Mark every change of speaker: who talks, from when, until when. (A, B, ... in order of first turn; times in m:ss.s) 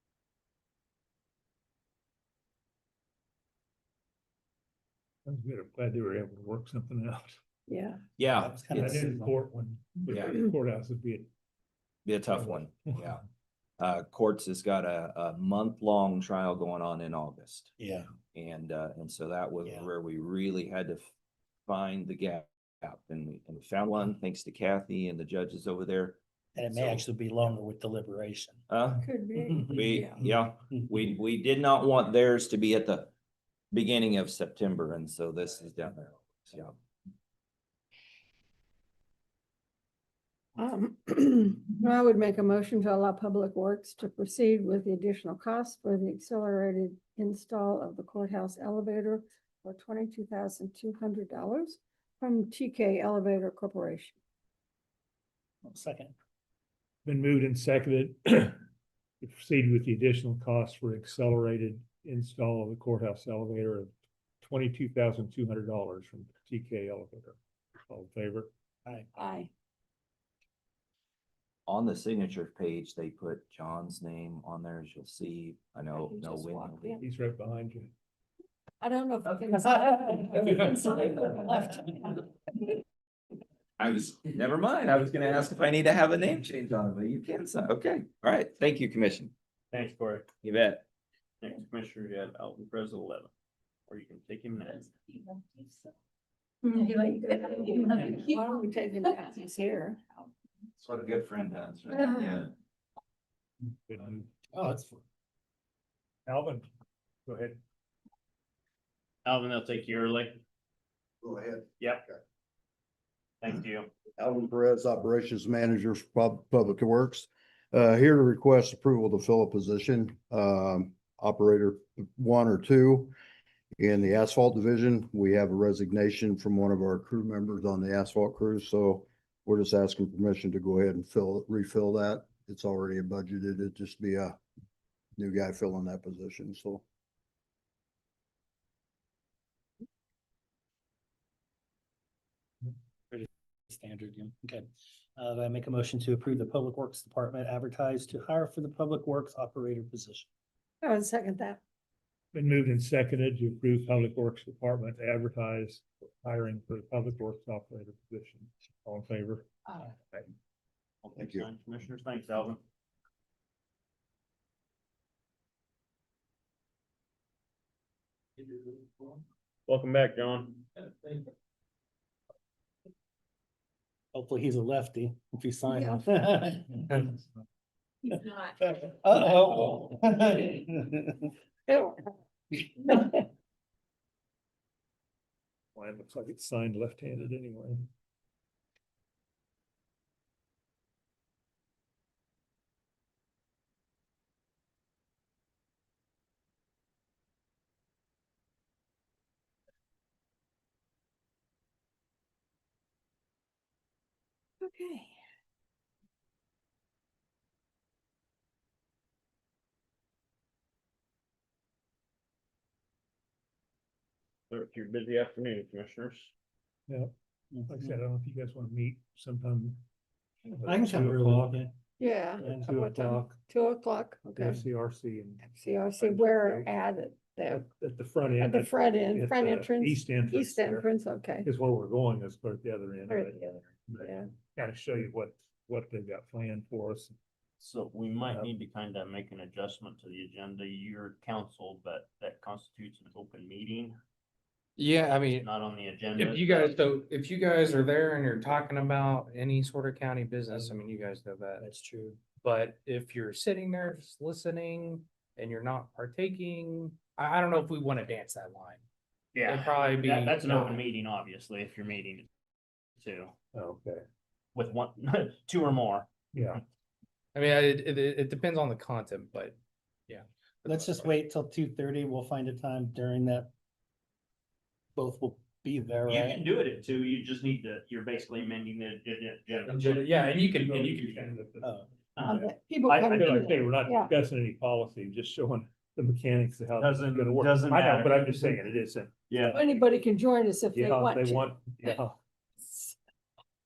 0:05.2-0:07.4 A
0:07.7-0:08.0 B
0:08.2-0:09.0 C
0:08.3-0:09.4 D
0:08.7-0:11.3 A
0:10.1-0:10.4 C
0:12.0-0:13.2 C
0:12.3-0:13.0 A
0:13.8-0:17.7 C
0:17.8-0:18.1 D
0:18.3-0:21.1 C
0:21.7-0:26.2 C
0:26.5-0:28.6 D
0:26.7-0:27.0 C
0:28.7-0:33.1 C
0:29.0-0:30.1 B
0:33.7-0:36.7 C
0:40.6-0:54.1 B
0:55.6-0:56.1 D
0:57.0-0:58.6 A
0:59.2-1:03.9 A
1:04.4-1:07.4 A
1:07.9-1:08.5 A
1:09.2-1:09.5 B
1:11.7-1:17.0 C
1:16.1-1:17.0 B
1:17.0-1:17.9 A
1:18.8-1:22.3 B
1:23.8-1:29.3 C
1:29.7-1:30.3 E
1:30.4-1:30.8 C
1:31.4-1:33.3 E
1:33.9-1:34.9 E
1:36.6-1:40.0 B
1:40.8-1:42.5 C
1:43.9-1:44.7 A
1:44.5-1:45.0 D
1:46.3-1:46.7 A
1:47.2-1:47.6 A
1:49.2-1:50.4 E
1:51.2-1:52.2 F
1:51.8-1:52.0 E
1:53.4-1:53.9 E
1:54.2-2:03.1 F
2:03.8-2:14.4 F
2:15.2-2:16.8 F
2:23.1-2:30.3 D
2:30.8-2:31.6 B
2:32.3-2:40.3 A
2:41.0-2:42.6 E
2:41.2-2:41.4 F
2:49.7-2:50.6 E
2:54.1-2:57.2 D
2:58.1-3:01.3 D
3:01.7-3:02.0 B
3:02.5-3:03.2 D
3:05.8-3:07.9 A
3:24.6-3:25.1 B
3:34.5-3:36.3 E
3:37.5-3:38.0 D
3:37.7-3:39.8 A
3:40.4-3:41.6 A
3:40.6-3:41.7 D
3:42.0-3:44.6 B
3:42.4-3:43.4 A
3:44.3-3:45.4 A
3:45.4-3:47.6 B
3:46.0-3:46.7 A
3:47.5-3:50.9 A
3:48.4-3:51.5 B
3:51.4-3:57.2 A
3:53.1-3:54.3 B
3:57.6-4:04.0 E
4:04.8-4:05.5 G
4:05.4-4:06.8 E
4:06.1-4:11.6 G
4:11.6-4:12.2 D
4:12.4-4:18.8 G
4:19.3-4:22.3 E
4:19.4-4:20.8 G
4:23.0-4:23.3 E
4:23.5-4:24.0 A
4:24.5-4:26.6 E
4:26.3-4:26.6 A
4:27.3-4:29.6 G
4:30.1-4:31.1 G
4:30.6-4:33.5 D
4:35.0-4:36.4 D
4:36.1-4:40.0 E
4:39.7-4:41.3 G
4:40.1-4:41.8 A
4:41.6-4:41.9 D
4:42.2-4:43.3 E
4:42.2-4:44.1 B
4:43.0-4:49.4 A
4:46.8-4:48.6 E
4:49.3-4:49.6 E
4:49.5-4:51.8 B
4:50.7-4:52.2 A
4:52.6-4:52.9 B